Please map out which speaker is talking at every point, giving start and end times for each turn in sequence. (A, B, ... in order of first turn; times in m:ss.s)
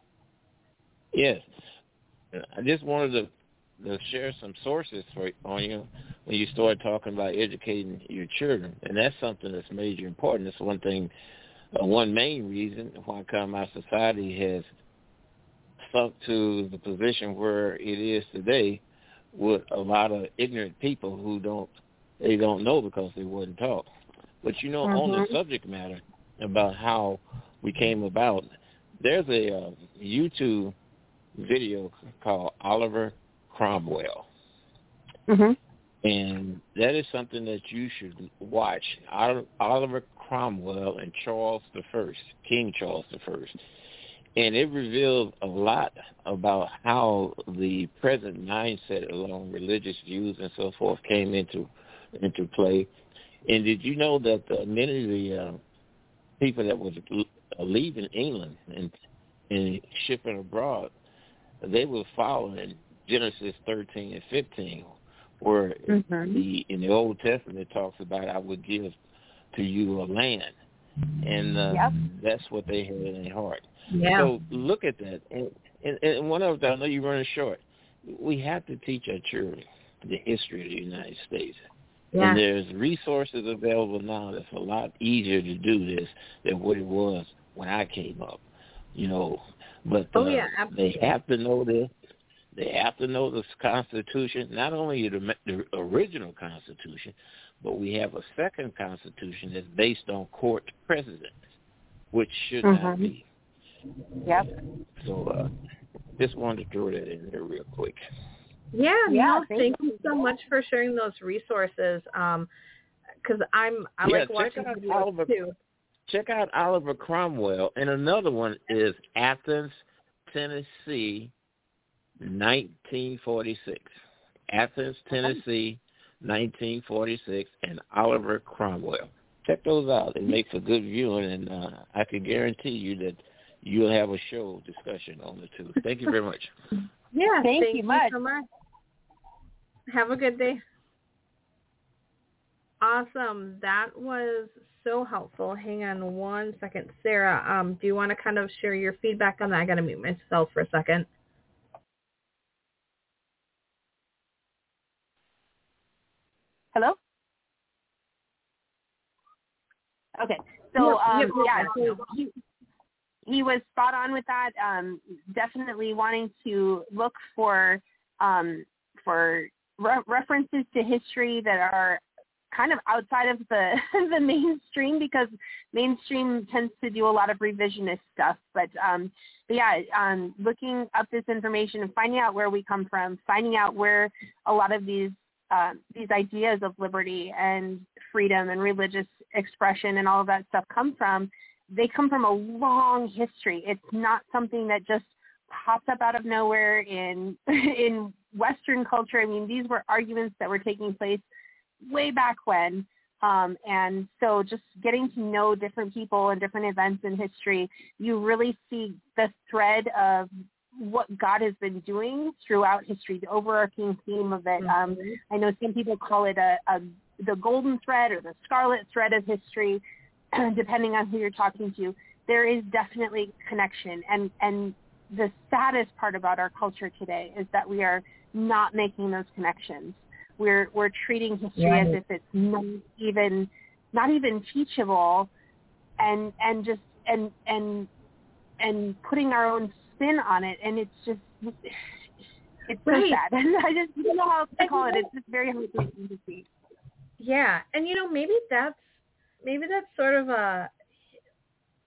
0:01.1-0:01.4 A
0:02.3-0:11.1 A
0:11.7-0:14.7 A
0:15.8-0:18.8 A
0:19.3-0:23.9 A
0:24.4-0:28.5 A
0:24.8-0:25.3 B
0:29.0-0:30.7 A
0:31.4-0:34.2 A
0:35.3-0:35.6 B
0:36.0-0:43.6 A
0:44.4-0:52.9 A
0:53.4-0:55.6 A
0:56.4-0:58.9 A
0:59.5-1:00.9 A
1:01.6-1:09.0 A
1:05.9-1:06.4 B
1:09.5-1:10.5 A
1:11.2-1:21.6 A
1:13.9-1:14.3 C
1:22.1-1:22.4 C
1:22.2-1:28.4 A
1:28.9-1:31.9 A
1:30.1-1:30.7 C
1:32.5-1:41.4 A
1:42.1-1:43.2 A
1:42.6-1:43.1 B
1:45.0-1:45.5 A
1:46.2-1:48.0 A
1:48.7-1:52.5 C
1:49.1-1:50.3 B
1:53.2-1:55.5 C
1:54.0-1:55.4 A
1:56.1-1:59.8 A
2:00.3-2:01.3 A
2:02.2-2:03.9 A
2:04.5-2:16.5 A
2:17.1-2:18.4 C
2:17.4-2:18.1 B
2:19.9-2:20.6 C
2:22.8-2:31.1 C
2:40.2-2:42.3 B
2:40.8-2:42.0 C
2:43.2-3:21.2 B
3:21.8-3:39.8 B
3:34.6-3:35.2 C
3:40.3-3:55.3 B
3:51.6-3:52.0 C
3:56.0-3:57.9 B
3:58.6-4:01.8 B
4:02.7-4:06.5 B
4:02.9-4:03.2 C
4:04.6-4:05.0 C
4:07.2-4:08.8 C
4:09.4-4:10.7 C